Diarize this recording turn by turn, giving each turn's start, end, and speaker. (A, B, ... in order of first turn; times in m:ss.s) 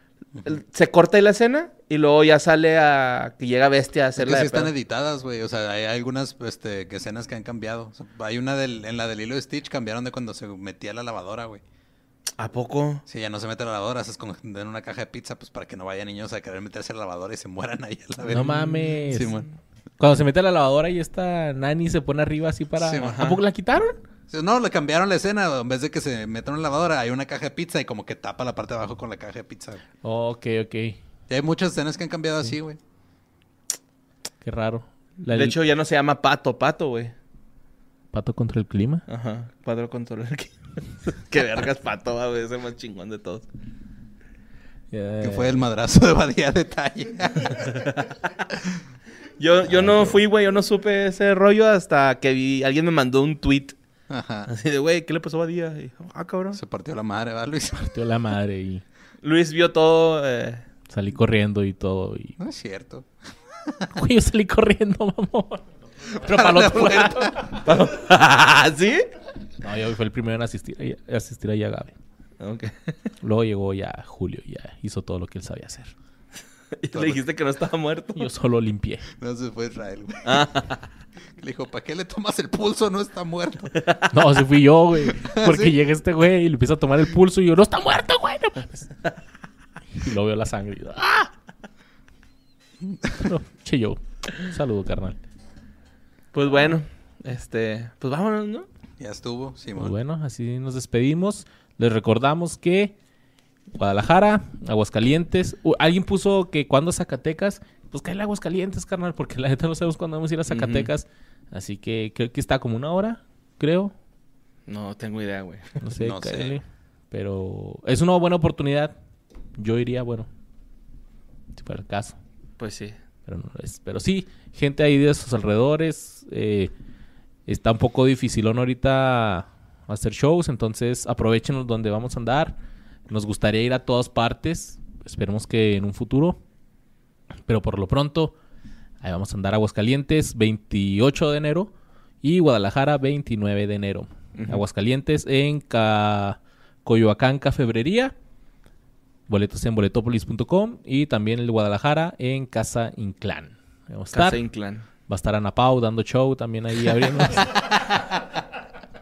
0:00.4-0:04.7 A
0:04.2-0:11.6 B
0:12.4-0:13.0 A
0:13.0-0:19.4 B
0:18.3-0:19.4 A
0:18.3-0:19.3 C
0:20.0-0:24.0 C
0:22.8-0:23.1 B
0:23.0-0:23.4 A
0:24.3-0:29.8 B
0:30.0-0:31.0 C
0:31.3-0:32.8 B
0:34.4-0:35.6 C
0:35.3-0:37.1 A
0:38.1-0:39.0 C
0:39.1-0:43.4 A
0:44.9-0:45.6 C
0:45.2-0:47.8 B
0:49.4-0:53.8 A
0:49.7-0:50.2 B
0:54.1-0:54.5 B
0:54.5-0:56.6 A
0:56.5-0:57.8 B
0:57.7-0:58.8 C
0:59.2-1:00.6 A
1:00.9-1:02.4 C
1:02.4-1:03.9 B
1:03.9-1:05.6 C
1:06.1-1:07.7 B
1:06.2-1:07.6 C
1:07.6-1:09.1 A
1:09.6-1:12.0 C
1:12.4-1:12.9 A
1:13.2-1:15.9 C
1:16.8-1:18.3 A
1:16.9-1:17.2 B
1:18.2-1:19.0 C
1:19.2-1:20.5 B
1:20.2-1:20.8 A
1:21.4-1:23.7 B
1:24.1-1:28.9 C
1:25.2-1:25.8 B
1:30.0-1:31.3 C
1:32.9-1:33.3 B
1:33.1-1:35.2 C
1:36.3-1:38.7 A
1:39.0-1:39.9 B
1:39.8-1:43.0 C
1:43.7-1:53.9 C
1:50.5-1:50.9 A
1:54.7-1:55.8 A
1:55.8-1:58.9 C
1:56.0-1:56.6 B
1:59.6-2:00.3 C
2:01.6-2:02.2 C
2:02.6-2:03.0 A
2:03.3-2:06.7 C
2:07.5-2:12.6 C
2:13.1-2:16.4 C
2:17.5-2:18.3 C
2:19.0-2:21.7 C
2:22.2-2:28.1 C
2:24.4-2:24.6 A
2:29.3-2:34.4 C
2:34.1-2:34.8 A
2:35.1-2:37.7 C